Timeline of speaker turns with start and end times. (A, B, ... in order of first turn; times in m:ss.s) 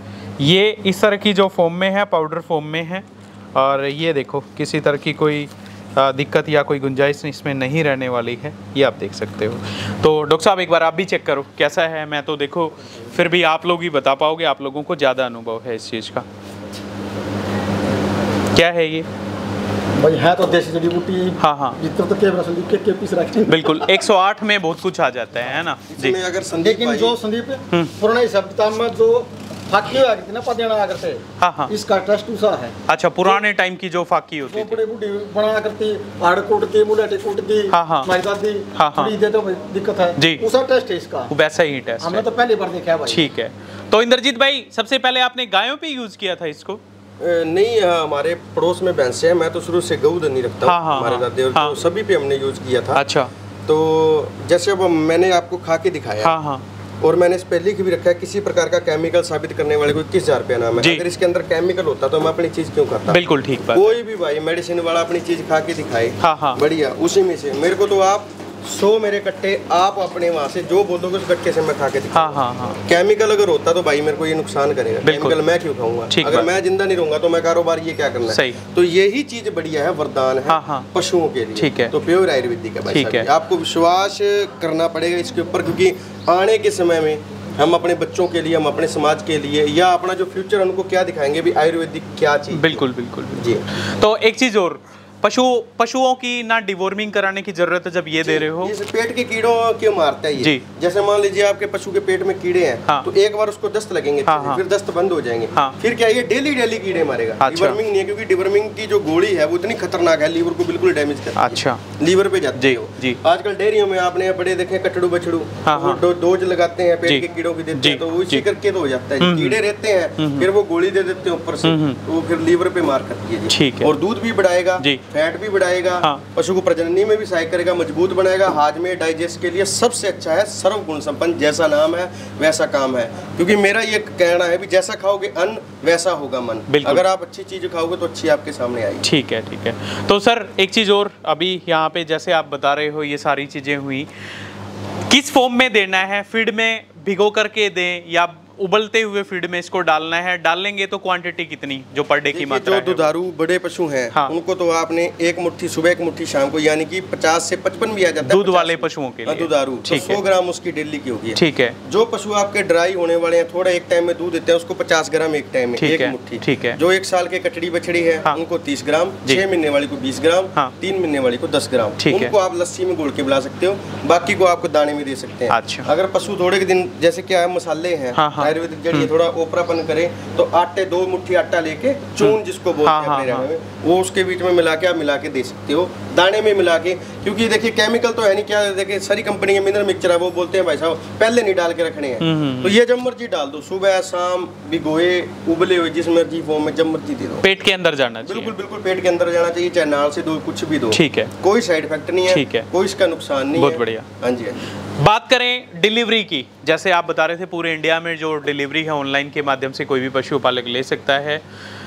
0:00.4-0:16.2 A
0:18.5-0:19.1 A
0:20.0-0:24.0 B
0:21.4-0:21.8 A
0:23.5-0:26.2 A
0:25.9-0:27.2 C
0:26.5-0:33.4 B
0:31.4-0:31.7 A
0:32.9-0:34.8 A
0:34.5-0:41.3 B
0:37.7-0:38.1 A
0:38.8-0:39.1 A
0:40.2-0:40.4 A
0:41.3-0:42.2 A
0:42.0-0:43.3 B
0:43.1-0:46.8 A
0:47.2-0:53.0 C
0:50.6-0:51.8 A
0:52.9-0:53.3 A
0:53.6-0:56.3 C
0:56.2-0:56.6 A
0:57.0-1:03.2 C
1:00.8-1:01.0 A
1:03.1-1:04.0 A
1:03.7-1:33.6 C
1:06.2-1:06.6 A
1:12.1-1:12.8 A
1:15.0-1:15.4 A
1:16.1-1:16.5 A
1:18.3-1:18.6 A
1:20.5-1:20.9 A
1:21.6-1:21.9 A
1:22.9-1:23.3 A
1:32.5-1:38.7 A
1:38.2-2:19.1 C
1:44.2-1:44.6 A
1:47.4-1:47.8 A
1:51.4-1:51.8 A
1:52.6-1:53.2 A
1:55.6-1:56.0 A
1:57.0-1:58.5 A
1:59.2-1:59.6 A
2:00.2-2:00.5 A
2:01.6-2:02.0 A
2:03.5-2:03.9 A
2:16.7-2:17.0 A
2:19.0-2:24.1 A
2:25.1-2:33.1 A
2:32.3-3:17.5 C
2:38.3-2:40.2 A
2:41.4-2:41.8 A
2:45.8-2:46.8 A
2:52.0-2:52.3 A
2:55.5-2:55.9 A
2:58.2-2:59.1 A
3:02.2-3:03.4 A
3:12.2-3:12.8 A
3:17.4-3:18.6 A
3:18.2-3:24.6 C
3:20.9-3:21.3 A
3:22.3-3:22.6 A
3:23.6-3:24.1 A
3:25.0-3:31.4 A